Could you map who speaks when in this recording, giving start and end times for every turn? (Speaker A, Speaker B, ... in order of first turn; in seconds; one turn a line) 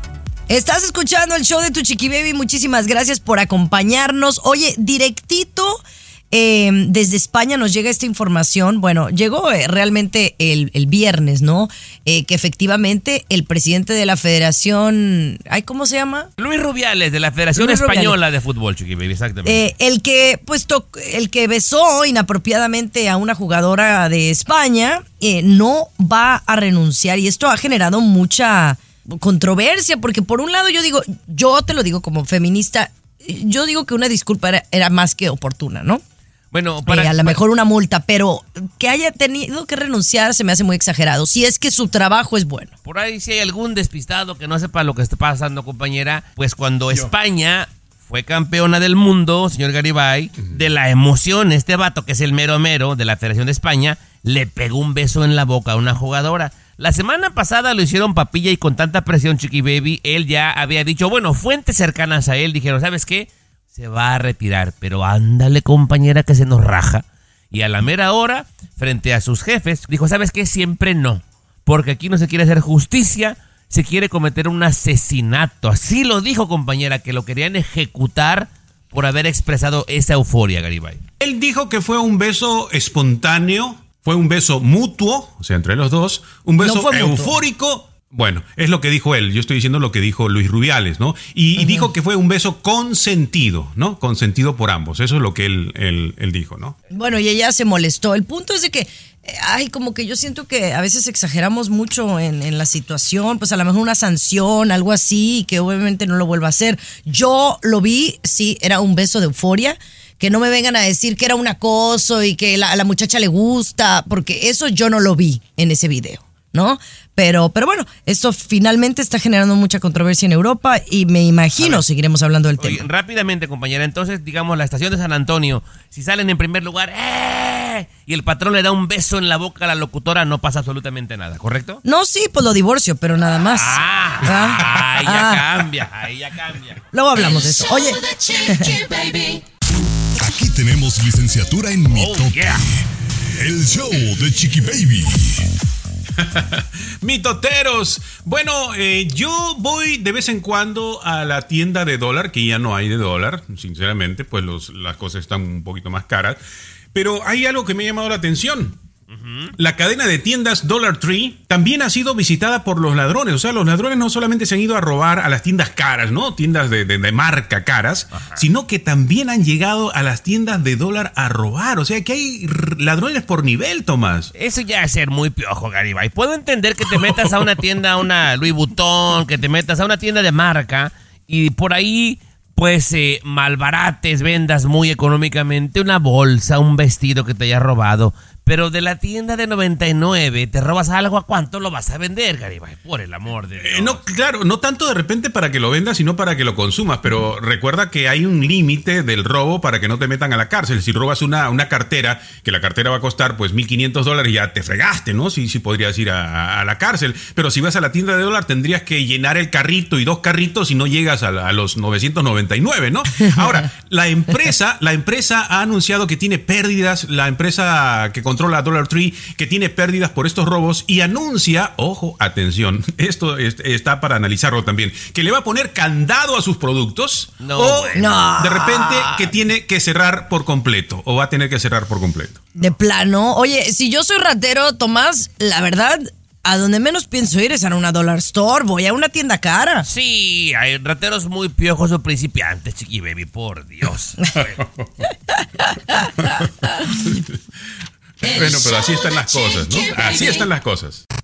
Speaker A: 0.5-16.3
Speaker B: 16.4-19.6
Speaker A: 17.5-18.1
Speaker A: 19.4-36.0
Speaker B: 36.5-37.4
Speaker A: 36.8-42.7
Speaker B: 42.8-81.0
Speaker C: 81.2-96.8
Speaker A: 86.6-87.3
Speaker A: 91.6-91.9
Speaker A: 96.9-122.8
Speaker B: 121.6-121.8
Speaker B: 122.6-131.8
Speaker A: 131.8-135.4
Speaker B: 133.5-136.8
Speaker A: 136.9-138.9
Speaker D: 140.2-142.8
Speaker B: 141.9-142.6
Speaker D: 143.4-145.4
Speaker C: 146.2-156.4
Speaker C: 156.9-158.8
Speaker B: 159.1-159.5
Speaker C: 159.6-174.3
Speaker B: 168.1-168.4
Speaker B: 174.3-194.0
Speaker C: 193.6-232.4
Speaker B: 227.4-228.0
Speaker A: 227.9-229.3
Speaker A: 232.6-239.9
Speaker B: 239.8-244.6
Speaker C: 247.0-247.4
Speaker C: 248.2-251.0